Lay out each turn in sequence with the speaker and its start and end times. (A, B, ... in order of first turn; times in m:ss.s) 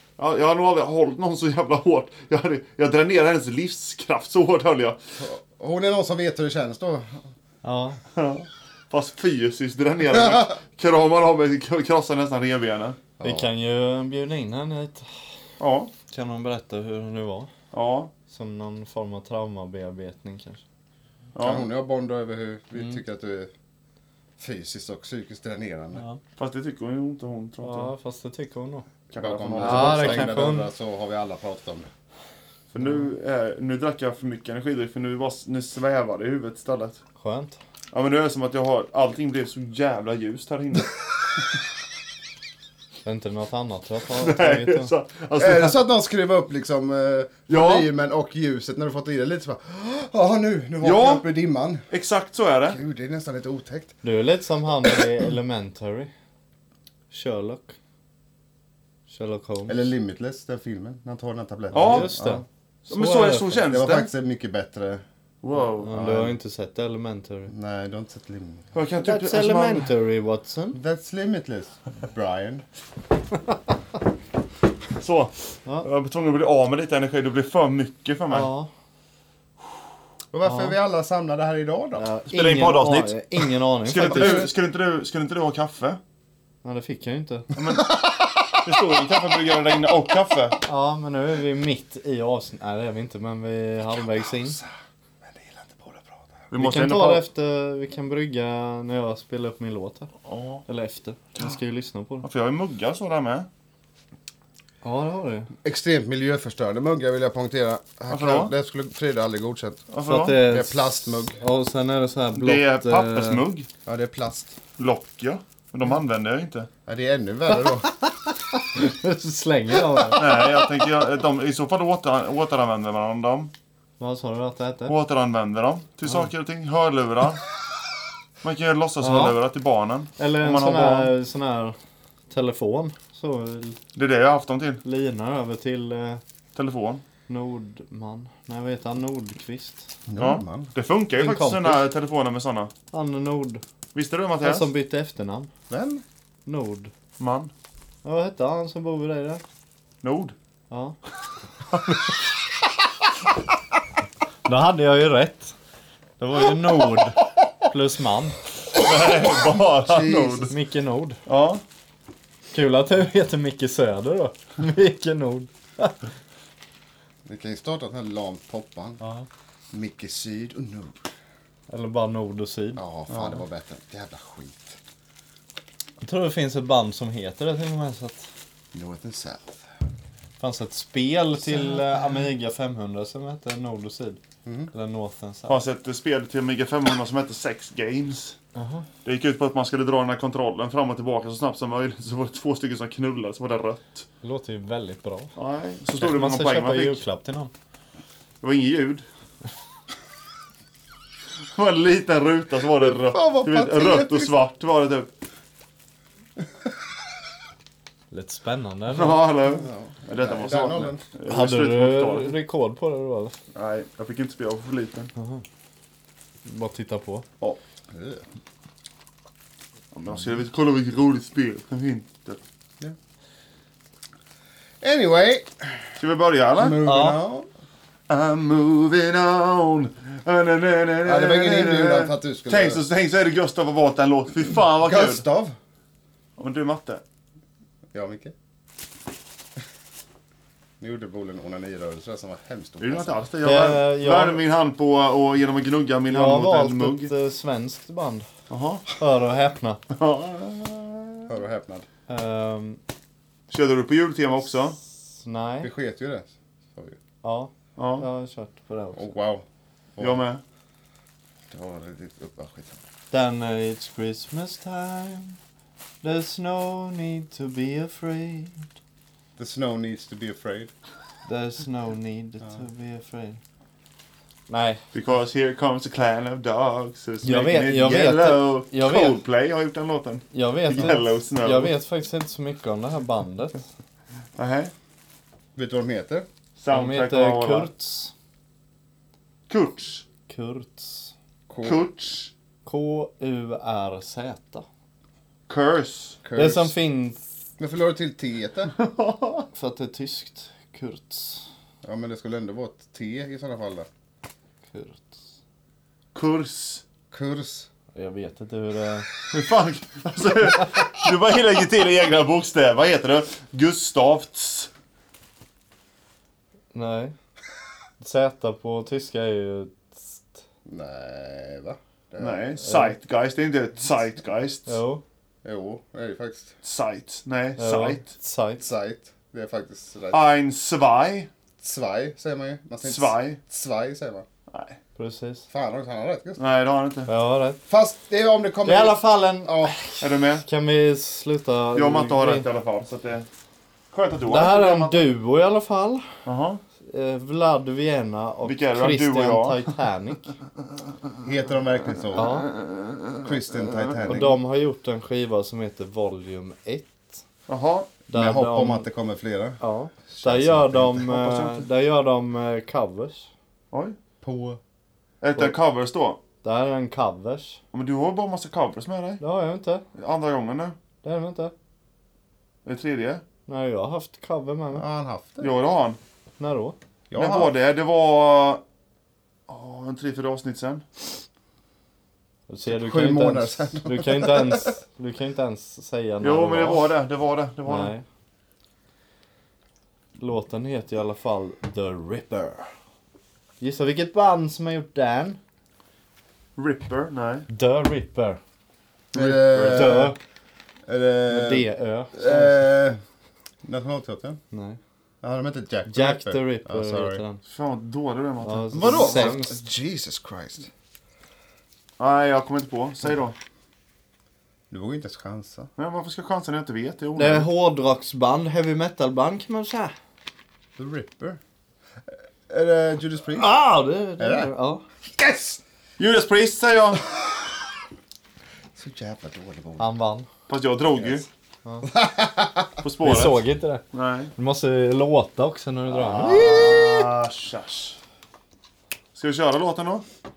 0:00.2-0:05.0 A
0:05.2-0:07.2 B
0:07.6-0:08.0 C
0:08.1-0:13.0 A
0:13.2-0:13.5 B
0:13.2-0:15.1 C
0:15.6-0:15.9 A
0:16.1-0:17.5 C
0:17.7-0:18.1 A
0:18.3-0:20.6 C
0:21.4-0:21.7 A
0:21.4-0:23.5 B
0:24.4-0:26.0 B
0:26.4-0:27.9 A
0:27.6-0:28.9 C
0:29.1-0:30.4 A
0:29.2-0:31.9 B
0:29.6-0:30.7 C
0:32.7-0:37.0 A
0:32.8-0:33.1 C
0:37.2-0:37.6 C
0:37.9-0:40.9 A
0:43.0-0:44.9 C
0:44.2-0:45.8 A
0:45.4-0:51.8 B
0:47.5-0:47.9 A
0:50.8-0:51.2 A
0:51.9-0:52.8 A
0:52.7-0:54.0 B
0:54.0-0:56.1 C
0:57.1-0:57.8 C
0:59.1-0:59.9 C
0:59.7-1:02.4 B
1:01.7-1:02.1 A
1:01.8-1:03.6 C
1:02.9-1:04.1 A
1:03.7-1:05.0 B
1:05.4-1:05.9 A
1:05.8-1:07.5 C
1:05.9-1:06.4 B
1:07.5-1:08.7 B
1:08.7-1:09.9 A
1:09.0-1:10.8 C
1:10.7-1:12.6 B
1:15.0-1:15.3 A
1:15.8-1:18.5 A
1:18.3-1:18.7 C
1:20.3-1:22.0 B
1:20.4-1:20.8 C
1:22.0-1:24.5 C
1:22.3-1:26.0 A
1:24.0-1:24.5 B
1:26.6-1:27.5 C
1:27.6-1:28.0 A
1:27.7-1:28.8 B
1:28.6-1:30.6 A
1:30.6-1:34.6 C
1:34.0-1:36.4 B
1:36.5-1:37.2 A
1:36.6-1:40.1 C
1:40.3-1:40.6 A
1:40.7-1:42.3 C
1:42.2-1:43.5 A
1:44.8-1:45.5 C
1:45.6-1:51.4 B
1:48.1-1:48.5 A
1:49.9-1:50.4 A
1:50.0-1:53.4 C
1:52.3-1:53.7 A
1:53.9-1:54.6 B
1:54.8-1:56.7 A
1:56.9-1:57.9 B
1:58.3-2:00.4 C
2:00.2-2:03.5 A
2:04.0-2:05.0 C
2:04.9-2:07.4 A
2:08.4-2:11.1 A
2:09.0-2:09.4 C
2:10.2-2:11.8 C
2:12.3-2:13.8 C
2:14.0-2:14.8 A
2:14.8-2:16.2 C
2:16.6-2:17.0 A
2:17.3-2:19.9 C
2:20.1-2:20.7 B
2:20.2-2:22.7 A
2:21.2-2:21.8 C
2:22.9-2:23.6 C
2:23.9-2:24.7 A
2:24.4-2:25.5 C
2:25.7-2:26.0 B
2:26.5-2:26.9 C
2:27.2-2:27.5 A
2:28.0-2:29.4 C
2:30.0-2:30.4 A
2:30.7-2:31.0 C
2:34.5-2:35.6 C
2:36.2-2:38.4 C
2:38.7-2:40.5 A
2:39.5-2:40.5 B
2:40.5-2:41.2 C
2:41.3-2:41.6 A
2:42.5-2:46.0 C
2:47.2-2:49.0 B
2:49.0-2:49.3 C
2:49.7-2:51.1 B
2:51.7-2:52.8 C
2:52.8-2:54.8 B
2:53.1-2:53.4 A
2:56.0-2:58.3 C
2:58.7-2:59.6 B
3:00.4-3:04.2 C
3:04.4-3:04.7 B
3:04.7-3:05.6 C
3:05.5-3:08.4 A
3:08.6-3:08.9 C
3:09.0-3:14.1 A
3:14.2-3:15.3 C
3:15.4-3:17.0 A
3:16.0-3:17.5 C
3:18.4-3:19.0 A
3:21.5-3:25.1 A
3:22.8-3:24.3 B
3:28.1-3:29.2 C
3:28.9-3:32.4 A
3:29.5-3:31.0 B
3:31.3-3:33.4 C
3:33.5-3:35.1 A
3:35.2-3:35.4 C
3:36.4-3:37.3 C
3:37.9-3:38.2 B
3:39.9-3:42.4 A
3:44.8-3:45.9 B
3:46.0-3:46.8 A
3:46.6-3:47.5 B
3:46.8-3:47.2 C
3:48.1-3:55.2 A
3:51.0-3:52.8 B
3:54.8-3:55.6 B
3:56.4-3:57.0 A
3:57.9-3:58.3 B
4:00.8-4:03.2 B
4:02.8-4:07.1 A
4:03.4-4:04.4 C
4:06.1-4:08.3 C
4:08.5-4:08.9 A
4:09.0-4:09.8 C
4:09.9-4:11.3 A
4:11.3-4:11.9 B
4:12.1-4:12.8 C
4:13.5-4:14.8 A
4:15.2-4:15.7 C
4:15.6-4:17.0 B
4:17.2-4:19.1 C
4:17.8-4:18.1 A
4:18.9-4:19.4 B
4:20.0-4:20.2 B
4:20.0-4:20.4 A
4:21.5-4:22.8 B
4:23.1-4:25.4 C
4:26.0-4:28.7 C
4:29.4-4:30.7 B
4:31.3-4:33.4 C
4:34.5-4:34.8 C
4:34.9-4:41.7 A
4:37.2-4:39.2 C
4:40.3-4:43.6 C
4:44.4-4:44.7 A
4:45.6-4:46.3 B
4:46.6-4:47.7 A
4:46.7-4:48.1 C
4:49.5-4:50.0 A
4:50.3-4:51.1 C
4:51.5-4:51.8 B
4:51.6-4:52.3 A
4:52.6-4:54.7 C
4:55.5-4:56.2 A
4:56.2-4:56.8 B
4:56.4-4:57.2 C
4:57.6-4:58.7 B
4:58.8-4:59.5 A
4:59.5-5:01.4 C
5:01.8-5:03.9 B
5:04.7-5:05.2 C
5:06.1-5:06.8 A
5:07.1-5:07.7 B
5:08.0-5:09.1 C
5:09.3-5:14.7 A
5:16.7-5:17.2 C
5:18.0-5:20.4 C
5:20.7-5:22.4 B
5:22.2-5:24.8 A
5:22.6-5:23.0 C
5:24.7-5:25.0 C
5:25.4-5:26.5 B
5:26.6-5:28.1 A
5:27.6-5:28.7 C
5:28.6-5:30.2 B
5:30.1-5:31.3 A
5:31.6-5:34.3 B
5:32.8-5:33.4 A
5:34.5-5:34.8 A
5:35.0-5:35.5 C
5:35.5-5:36.4 B
5:36.4-5:37.1 A
5:37.1-5:37.6 C
5:37.7-5:39.8 B
5:38.6-5:42.5 C
5:40.0-5:40.4 A
5:41.7-5:43.3 A
5:43.9-5:45.1 A
5:44.3-5:46.1 C
5:46.2-5:46.6 A
5:46.8-5:50.3 C
5:48.4-5:49.8 A
5:51.2-5:52.4 B
5:52.1-5:54.3 A
5:52.2-5:52.5 C
5:53.2-5:54.4 B
5:54.0-5:57.2 C
5:57.5-5:57.9 A
5:58.1-5:58.9 C
5:58.1-6:01.2 B
5:59.6-6:03.3 C
6:01.1-6:01.6 A
6:04.2-6:04.6 B
6:05.2-6:06.2 A
6:06.4-6:07.6 C
6:07.7-6:09.2 A
6:09.2-6:09.8 C
6:10.0-6:10.8 A
6:11.0-6:11.5 C
6:12.6-6:13.2 A
6:13.5-6:14.8 C
6:14.7-6:15.5 B
6:15.4-6:16.0 A
6:16.4-6:16.8 C
6:17.1-6:17.5 B
6:17.1-6:18.6 A
6:19.5-6:20.8 A
6:22.5-6:26.9 C
6:22.7-6:24.7 B
6:26.2-6:27.9 A
6:27.7-6:28.0 C
6:30.2-6:32.7 C
6:33.6-6:35.4 C
6:36.6-6:37.5 A
6:37.5-6:38.4 C
6:39.1-6:40.2 B
6:39.2-6:40.0 A
6:39.5-6:40.2 C
6:40.9-6:43.0 B
6:41.3-6:42.7 C
6:43.6-6:44.4 B
6:44.5-6:44.8 C
6:45.2-6:47.2 B
6:45.9-6:47.4 C
6:47.5-6:49.4 A
6:48.4-6:49.6 C
6:48.7-6:50.7 B
6:52.0-6:53.4 A
6:54.7-6:55.7 B
6:55.8-6:57.5 A
6:57.2-6:59.9 C
7:00.8-7:01.4 B
7:02.5-7:03.5 B
7:03.4-7:04.8 C
7:04.2-7:04.5 B
7:05.1-7:05.6 B
7:06.0-7:07.0 A
7:08.8-7:09.9 B
7:09.8-7:10.3 C
7:10.5-7:11.3 A
7:11.0-7:11.2 B
7:11.8-7:12.8 B
7:12.8-7:14.3 A
7:13.0-7:13.8 C
7:14.4-7:16.8 C
7:15.9-7:18.0 A
7:16.2-7:17.0 B
7:19.2-7:20.0 A